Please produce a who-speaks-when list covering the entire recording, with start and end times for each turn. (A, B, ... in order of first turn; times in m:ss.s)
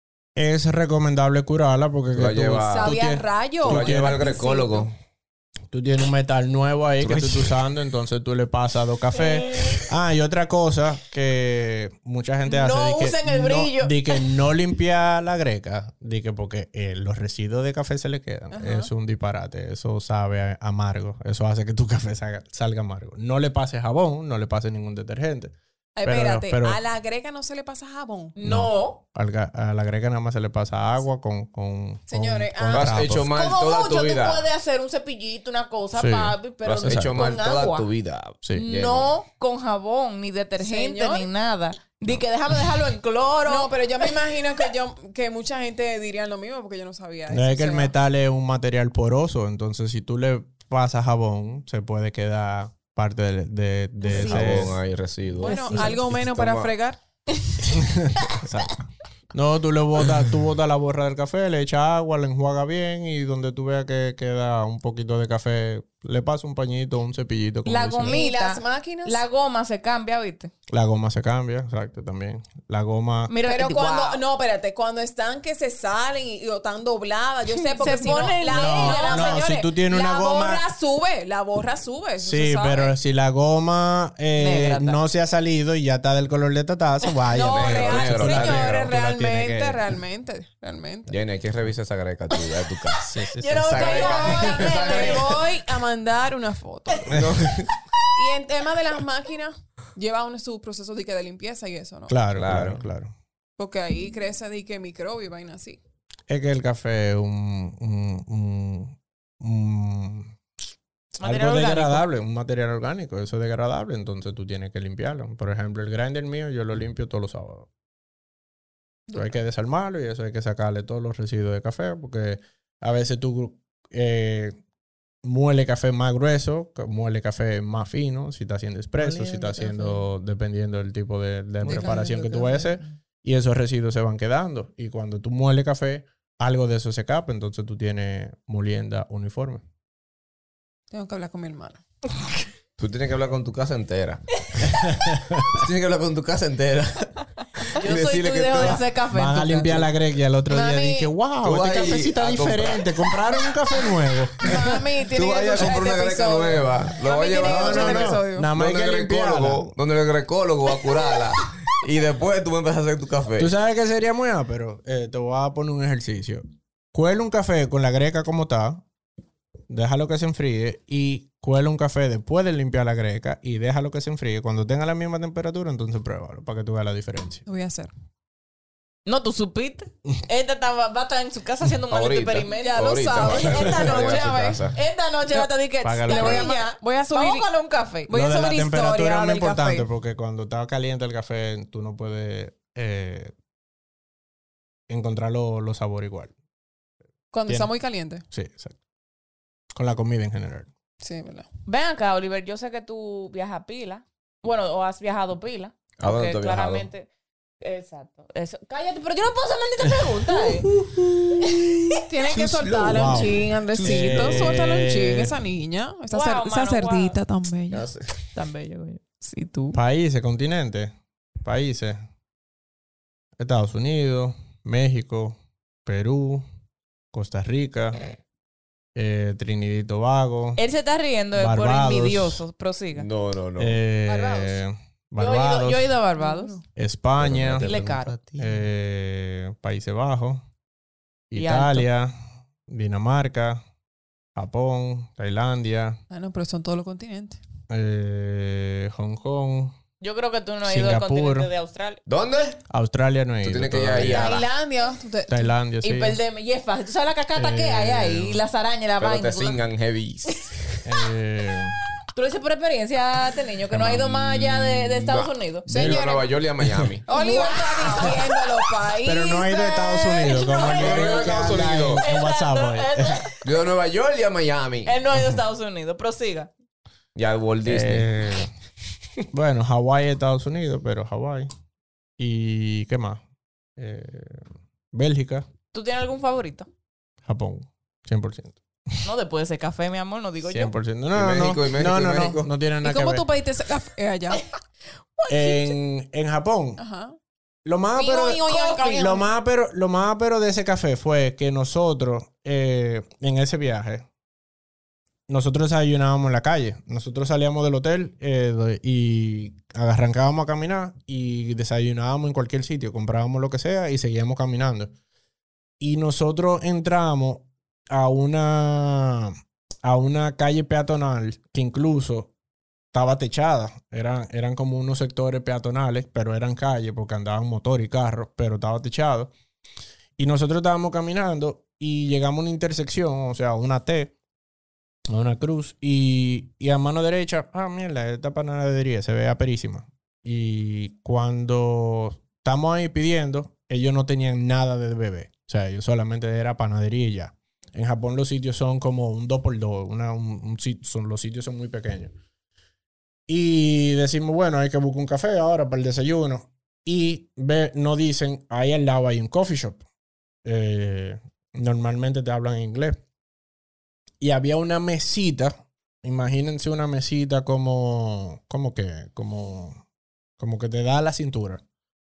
0:00.4-0:04.2 A
0:02.2-0:03.0 B
0:02.7-0:04.9 C
0:03.6-0:04.9 B
0:05.7-0:26.8 A
0:07.0-0:07.6 B
0:12.5-0:14.2 D
0:18.5-0:18.9 C
0:26.0-0:28.4 C
0:28.4-0:29.0 D
0:28.4-0:33.3 A
0:32.1-0:33.0 C
0:32.7-0:34.5 B
0:33.2-0:37.9 D
0:36.0-0:37.2 A
0:36.6-0:39.1 B
0:38.6-0:43.7 D
0:40.6-0:41.3 C
0:43.5-0:47.9 C
0:47.3-0:54.8 A
0:54.0-0:54.7 C
0:54.1-0:56.7 B
0:55.4-0:57.0 C
0:55.4-0:55.8 D
0:55.5-0:56.0 A
0:57.7-1:08.2 A
1:07.7-1:10.5 D
1:08.0-1:09.2 C
1:10.7-1:13.3 A
1:13.3-1:14.2 D
1:13.5-1:23.0 C
1:17.8-1:19.5 D
1:18.5-1:20.6 A
1:22.2-1:29.8 A
1:24.4-1:25.0 D
1:27.3-1:31.2 C
1:27.4-1:28.9 B
1:31.1-1:35.4 B
1:33.0-1:34.5 A
1:33.4-1:35.3 D
1:33.6-1:37.2 C
1:37.1-1:37.8 B
1:37.1-1:37.4 A
1:38.1-1:42.2 C
1:42.1-1:43.1 A
1:42.4-1:42.8 B
1:43.6-1:45.8 C
1:46.3-1:50.3 A
1:51.2-1:52.1 D
1:51.2-1:57.7 A
1:59.1-2:04.6 A
2:05.2-2:19.6 A
2:09.2-2:09.8 B
2:11.6-2:12.0 B
2:11.7-2:12.4 C
2:20.9-2:21.8 C
2:22.8-2:24.8 B
2:24.8-2:25.6 A
2:25.5-2:28.8 B
2:27.8-2:29.9 D
2:28.6-2:34.6 A
2:30.6-2:31.0 C
2:31.4-2:33.2 B
2:34.4-2:38.5 C
2:34.5-2:43.5 B
2:37.4-2:39.7 A
2:43.4-2:48.8 A
2:49.7-2:57.4 A
2:57.5-2:57.9 C
2:59.1-3:08.1 D
3:01.9-3:04.8 B
3:02.5-3:04.6 C
3:05.8-3:06.5 A
3:06.1-3:07.5 C
3:08.1-3:09.9 C
3:08.1-3:13.3 A
3:14.9-3:16.3 A
3:17.3-3:18.2 C
3:18.3-3:18.8 A
3:19.8-3:20.7 A
3:21.0-3:21.5 C
3:21.7-3:27.1 D
3:26.0-3:26.9 B
3:27.6-3:30.7 D
3:31.4-3:32.0 D
3:32.0-3:37.9 C
3:32.3-3:34.6 B
3:32.9-3:35.4 A
3:36.1-3:37.2 D
3:37.7-3:38.2 B
3:38.3-3:39.2 D
3:39.2-3:39.8 C
3:39.7-3:42.0 A
3:43.4-3:46.4 A
3:47.1-3:48.0 A
3:49.0-3:50.6 A
3:50.6-3:53.1 D
3:51.3-3:52.4 A
3:53.0-3:53.8 B
3:53.6-3:55.9 A
3:54.1-3:54.6 D
3:55.2-3:56.6 D
3:56.2-3:56.6 C
3:56.8-4:00.4 A
3:57.2-3:58.4 B
3:57.6-3:58.2 D
4:01.3-4:02.1 A
4:01.4-4:01.9 D
4:02.7-4:03.6 A
4:04.4-4:06.0 A
4:06.1-4:07.4 C
4:07.7-4:09.7 A
4:10.0-4:12.0 D
4:10.6-4:11.5 A
4:12.1-4:12.6 B
4:12.7-4:14.4 A
4:13.4-4:14.4 B
4:14.0-4:15.5 C
4:15.3-4:16.2 A
4:15.8-4:19.6 D
4:17.4-4:18.4 A
4:19.0-4:20.7 B
4:20.8-4:21.8 A
4:22.1-4:26.0 D
4:23.7-4:24.2 A
4:24.0-4:27.0 B
4:25.7-4:26.3 C
4:26.6-4:26.9 A
4:27.1-4:31.3 C
4:27.1-4:28.6 D
4:29.0-4:33.2 A
4:29.6-4:33.4 D
4:30.7-4:32.0 B
4:33.4-4:35.0 B
4:34.8-4:36.5 D
4:37.2-4:38.2 B
4:37.6-4:38.5 A
4:39.3-4:41.5 A
4:42.2-4:43.2 A
4:43.8-4:45.5 A
4:45.7-4:46.7 D
4:47.2-4:48.6 A
4:49.0-4:50.7 D
4:50.4-4:53.3 A
4:51.1-4:52.5 B
4:52.8-4:54.4 C
4:55.2-4:55.8 D
4:55.3-4:56.8 A
4:56.8-4:57.2 C
4:57.6-5:04.1 A
4:58.0-4:59.2 D
4:58.5-4:59.0 C
5:05.3-5:14.9 A
5:15.8-5:22.3 A
5:22.9-5:29.3 A
5:30.2-5:34.1 A
5:35.1-5:52.1 A
5:53.3-5:59.8 A
6:00.4-6:03.0 A
6:04.2-6:09.8 A
6:10.4-6:11.6 A